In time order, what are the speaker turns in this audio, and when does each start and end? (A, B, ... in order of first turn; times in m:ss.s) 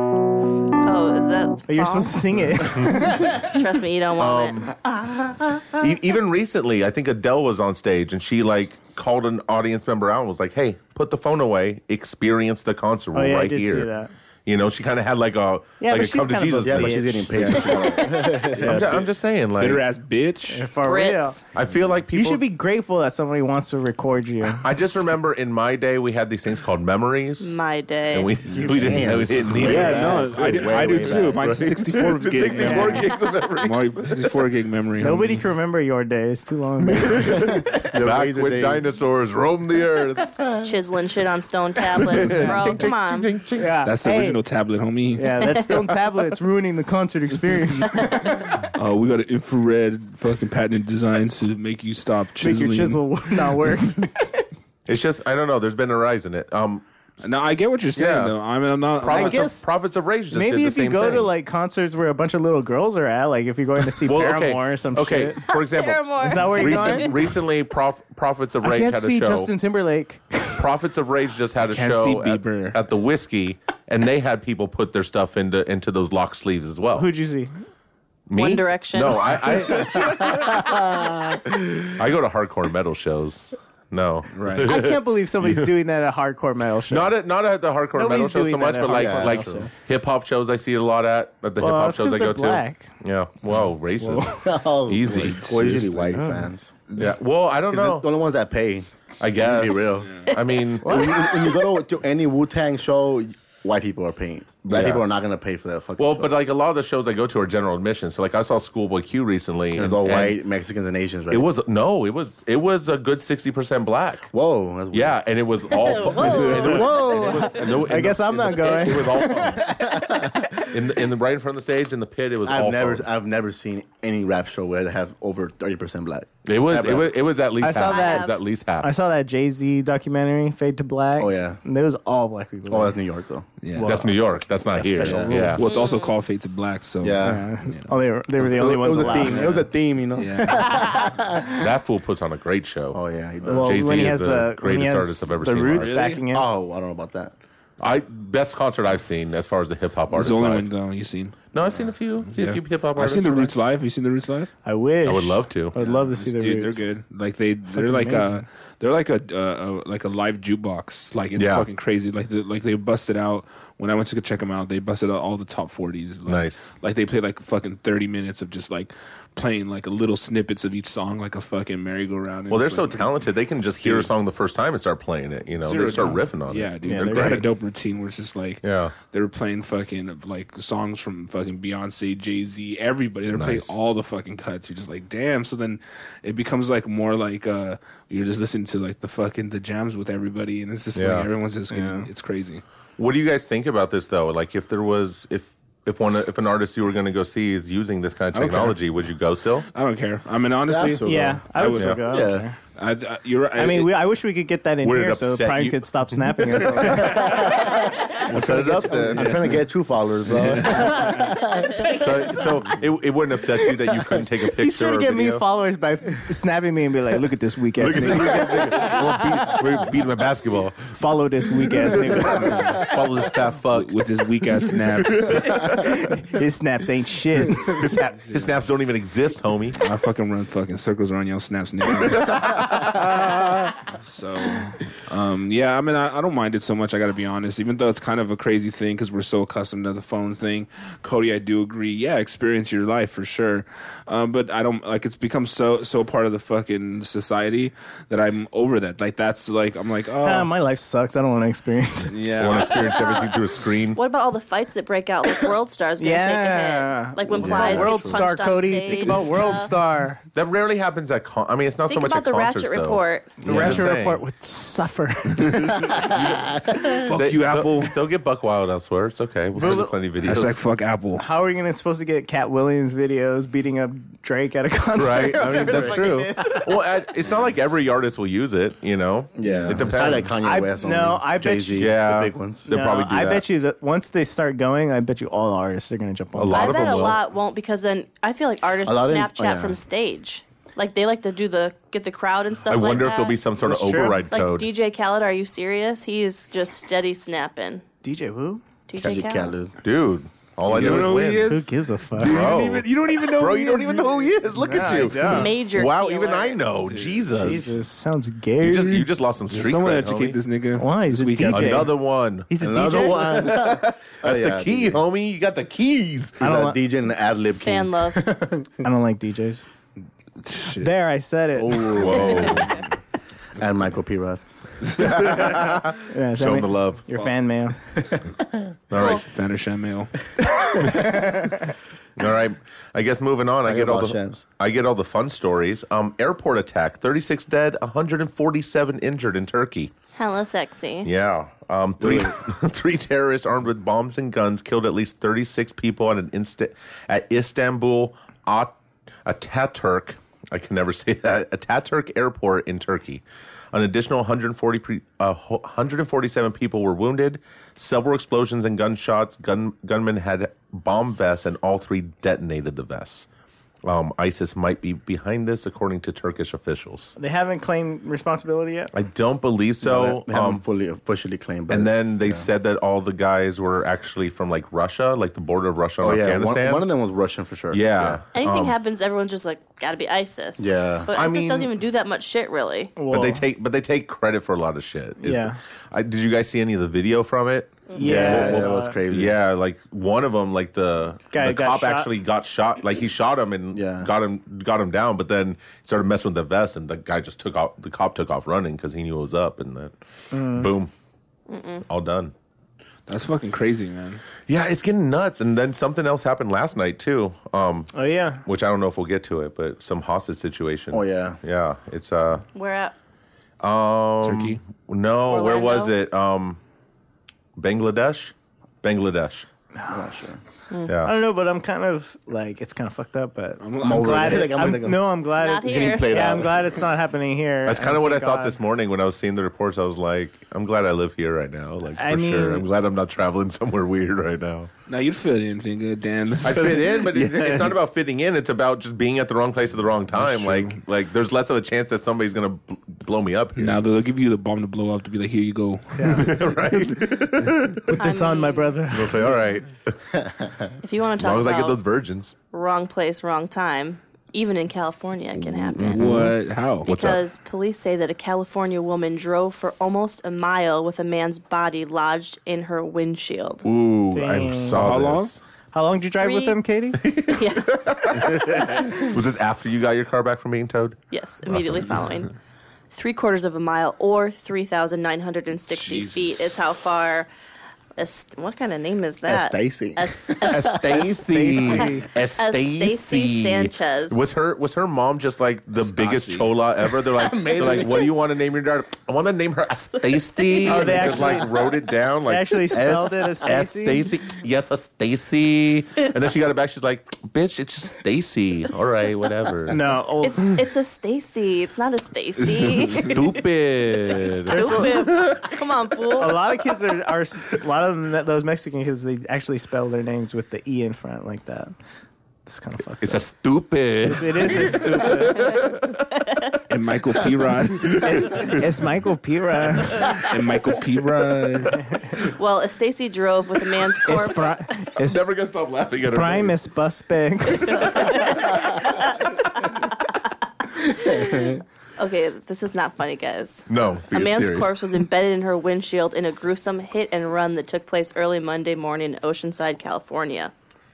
0:00.8-0:02.2 A
0:01.7-0:03.5 B
0:03.3-0:04.7 A
0:04.2-0:04.7 C
0:05.7-0:13.9 C
0:13.1-0:14.1 B
0:14.4-0:17.9 C
0:15.8-0:17.8 B
0:16.6-0:18.8 D
0:17.7-0:18.3 A
0:18.5-0:19.8 C
0:18.6-0:20.7 E
0:20.5-0:21.4 B
0:20.8-0:21.4 A
0:21.5-0:22.4 C
0:22.1-0:24.8 B
0:24.6-0:27.6 C
0:27.4-0:28.4 A
0:28.1-0:34.0 C
0:28.5-0:31.5 D
0:28.6-0:28.9 B
0:29.5-0:35.4 E
0:32.5-0:33.0 B
0:35.0-0:37.6 B
0:37.3-0:38.8 D
0:38.0-0:40.4 C
0:40.3-0:40.6 D
0:40.6-0:43.3 A
0:41.9-0:43.7 C
0:43.5-0:44.4 B
0:43.8-0:45.5 E
0:45.1-0:48.7 B
0:45.4-0:45.8 A
0:48.5-0:53.7 E
0:52.4-0:54.5 B
0:54.9-0:56.8 C
0:57.2-0:59.5 E
0:57.9-0:58.4 C
0:59.0-1:01.3 C
0:59.1-0:59.6 B
1:00.3-1:05.4 B
1:04.0-1:09.5 C
1:05.5-1:07.1 A
1:06.2-1:07.1 B
1:08.6-1:10.6 B
1:10.5-1:17.1 C
1:11.6-1:12.8 E
1:17.0-1:17.5 B
1:18.3-1:20.8 C
1:18.3-1:19.5 A
1:19.9-1:21.4 D
1:21.9-1:25.7 C
1:24.3-1:24.7 E
1:24.6-1:27.1 B
1:26.9-1:35.4 C
1:27.9-1:29.7 B
1:28.9-1:29.6 D
1:31.6-1:32.9 B
1:34.0-1:34.4 B
1:34.4-1:36.7 D
1:35.0-1:36.2 E
1:36.1-1:36.5 B
1:37.0-1:38.1 C
1:37.7-1:40.2 D
1:39.2-1:41.2 C
1:40.0-1:40.3 E
1:40.8-1:41.2 B
1:40.8-1:46.3 D
1:44.7-1:45.0 C
1:46.0-1:50.4 C
1:49.7-1:51.4 D
1:51.3-1:54.3 C
1:54.3-1:55.2 D
1:54.9-1:59.8 C
1:55.7-1:57.5 A
1:56.5-2:00.6 B
1:59.6-2:00.4 D
2:00.6-2:03.1 C
2:02.4-2:07.1 D
2:06.4-2:08.9 C
2:07.6-2:13.0 B
2:07.7-2:08.4 A
2:11.2-2:11.6 D
2:12.7-2:13.5 D
2:13.6-2:13.9 E
2:13.7-2:15.6 B
2:13.8-2:15.6 C
2:15.0-2:15.6 D
2:15.6-2:17.9 E
2:15.6-2:16.2 A
2:17.0-2:17.5 D
2:17.2-2:19.6 B
2:18.4-2:21.6 D
2:19.0-2:21.0 E
2:20.5-2:21.1 B
2:21.6-2:25.9 C
2:22.9-2:24.0 D
2:23.5-2:26.5 B
2:25.7-2:26.2 E
2:26.3-2:27.3 D
2:27.8-2:30.7 C
2:30.1-2:31.4 E
2:31.5-2:33.6 C
2:32.3-2:34.5 E
2:34.6-2:36.9 B
2:35.0-2:35.7 C
2:35.8-2:53.1 E
2:37.7-2:38.4 B
2:41.4-2:41.7 C
2:46.2-2:46.7 C
2:52.5-2:57.5 C
2:53.8-2:54.1 E
2:55.6-3:12.6 E
2:56.8-2:57.4 B
2:58.6-2:58.9 C
3:03.3-3:03.7 C
3:10.9-3:11.3 C
3:11.7-3:12.1 B
3:13.0-3:19.7 C
3:18.3-3:18.8 E
3:19.7-3:22.0 E
3:20.7-3:21.5 D
3:21.0-3:22.6 B
3:21.7-3:22.0 C
3:22.0-3:22.4 D
3:22.8-3:24.0 E
3:23.6-3:27.6 B
3:24.8-3:26.0 C
3:26.9-3:29.4 C
3:27.0-3:32.4 D
3:30.3-3:31.3 E
3:30.7-3:31.3 B
3:31.7-3:32.0 A
3:31.9-3:35.4 C
3:34.5-3:39.6 B
3:37.8-3:40.9 C
3:40.9-3:42.9 B
3:42.2-3:44.0 C
3:43.7-3:45.6 E
3:45.0-3:45.9 C
3:45.6-3:47.8 B
3:47.7-3:49.8 C
3:49.8-4:10.5 E
3:52.4-3:53.0 C
4:10.2-4:12.1 B
4:12.1-4:12.9 E
4:12.4-4:14.0 C
4:13.9-4:19.7 A
4:16.0-4:20.2 B
4:17.4-4:18.1 D
4:17.4-4:18.2 C
4:18.9-4:19.6 C
4:20.3-4:24.2 C
4:21.9-4:23.5 A
4:23.4-4:25.9 B
4:25.3-4:28.0 E
4:25.7-4:27.0 D
4:27.1-4:30.6 C
4:29.6-4:29.9 B
4:30.2-4:31.2 E
4:31.2-4:36.7 B
4:35.0-4:40.3 C
4:35.6-4:36.0 D
4:39.4-4:42.7 D
4:40.4-4:41.9 B
4:41.7-4:43.4 C
4:42.7-4:47.1 B
4:46.3-4:47.2 C
4:46.5-4:53.4 A
4:48.8-4:49.8 D
4:52.7-4:54.7 C
4:53.6-4:54.2 B
4:54.3-4:57.8 A
4:58.0-4:58.6 B
4:58.9-4:59.6 A
4:59.0-4:59.7 D
4:59.8-5:01.6 C
5:00.7-5:03.9 E
5:01.5-5:02.7 B
5:02.2-5:07.8 C
5:03.2-5:03.8 B
5:04.5-5:05.5 B
5:05.2-5:06.6 A
5:06.8-5:07.6 E
5:07.3-5:09.1 B
5:08.6-5:10.4 C
5:09.5-5:11.9 E
5:10.8-5:11.9 B
5:11.5-5:16.4 C
5:12.5-5:13.4 B
5:12.6-5:15.0 D
5:16.4-5:16.8 B
5:16.4-5:18.7 D
5:17.6-5:18.2 A
5:18.8-5:19.6 B
5:20.4-5:20.9 E
5:20.8-5:22.5 B
5:21.6-5:22.7 D
5:21.9-5:22.8 C
5:23.6-5:24.4 D
5:24.8-5:25.7 E
5:25.0-5:27.0 C
5:26.0-5:27.8 B
5:28.0-5:28.6 D
5:28.9-5:29.2 C
5:28.9-5:29.2 A
5:29.0-5:30.1 E
5:30.5-5:31.6 B
5:32.2-5:39.9 C
5:33.6-5:34.4 D
5:40.1-5:41.1 A
5:41.0-6:03.3 C
5:42.0-5:42.3 E
6:03.8-6:07.1 C
6:07.2-6:08.9 B
6:08.9-6:10.6 C
6:09.8-6:12.4 D
6:11.7-6:16.8 C
6:16.0-6:18.2 D
6:17.7-6:18.8 C
6:18.3-6:22.9 A
6:20.6-6:21.1 D
6:21.1-6:21.7 C
6:23.0-6:23.4 B
6:23.1-6:40.9 C
6:25.2-6:25.6 B
6:27.9-6:28.2 A
6:27.9-6:29.0 B
6:28.0-6:29.3 D
6:31.3-6:32.1 B
6:33.7-6:34.1 D
6:40.3-6:40.7 B
6:41.5-6:41.8 A
6:41.9-6:42.3 C
6:43.1-6:44.2 E
6:44.5-6:47.9 C
6:47.9-6:48.4 B
6:48.4-6:52.4 C
6:50.9-6:51.4 D
6:52.5-6:52.9 A
6:53.6-6:56.6 C
6:54.2-6:54.6 E
6:55.2-6:55.9 A
6:57.6-6:59.5 C
6:59.8-7:00.0 B
6:59.9-7:00.4 D
7:00.8-7:01.1 C
7:01.0-7:08.6 B
7:03.6-7:04.4 E
7:03.8-7:06.8 D
7:05.4-7:06.4 A
7:07.6-7:14.7 C
7:12.0-7:12.6 B
7:14.9-7:17.8 E
7:16.4-7:23.8 C
7:20.1-7:20.8 E
7:23.6-7:26.4 E
7:26.0-7:26.3 B
7:26.1-7:28.0 C
7:27.9-7:29.4 B
7:28.0-7:28.8 A
7:28.9-7:30.1 C
7:30.2-7:30.7 D
7:30.8-7:31.8 A
7:31.2-7:32.3 C
7:32.5-7:36.2 A
7:35.4-7:37.2 C
7:35.9-7:36.9 E
7:36.8-7:43.6 A
7:43.6-7:45.4 C
7:44.1-7:44.8 B
7:44.7-7:45.3 E
7:45.7-7:47.0 B
7:46.2-7:46.6 A
7:47.0-7:51.0 C
7:47.3-7:49.1 A
7:51.1-7:52.3 A
7:51.5-7:52.0 C
7:52.9-7:57.3 A
7:55.7-7:56.6 E
7:58.0-8:04.2 A
7:59.2-8:01.0 D
8:00.4-8:19.8 C
8:01.2-8:02.1 B
8:05.8-8:06.5 E
8:07.1-8:08.1 D
8:10.5-8:10.8 A
8:10.6-8:11.5 B
8:12.2-8:14.1 B
8:19.7-8:20.5 B
8:20.2-8:23.3 A
8:22.4-8:23.1 E
8:23.0-8:25.3 C
8:24.0-8:26.4 A
8:24.4-8:25.3 B
8:26.2-8:31.7 B
8:32.4-8:33.2 B
8:33.0-8:36.0 C
8:34.0-8:35.6 B
8:36.7-8:38.2 E
8:37.8-8:38.6 C
8:37.9-8:40.2 B
8:40.0-8:41.8 E
8:41.9-8:42.2 B
8:42.2-8:44.5 A
8:44.0-8:45.2 B
8:45.0-8:46.6 C
8:46.1-8:48.1 B
8:47.6-8:50.1 A
8:47.8-8:48.8 C
8:50.8-9:00.5 A
8:51.0-8:51.6 D
8:53.7-8:54.7 C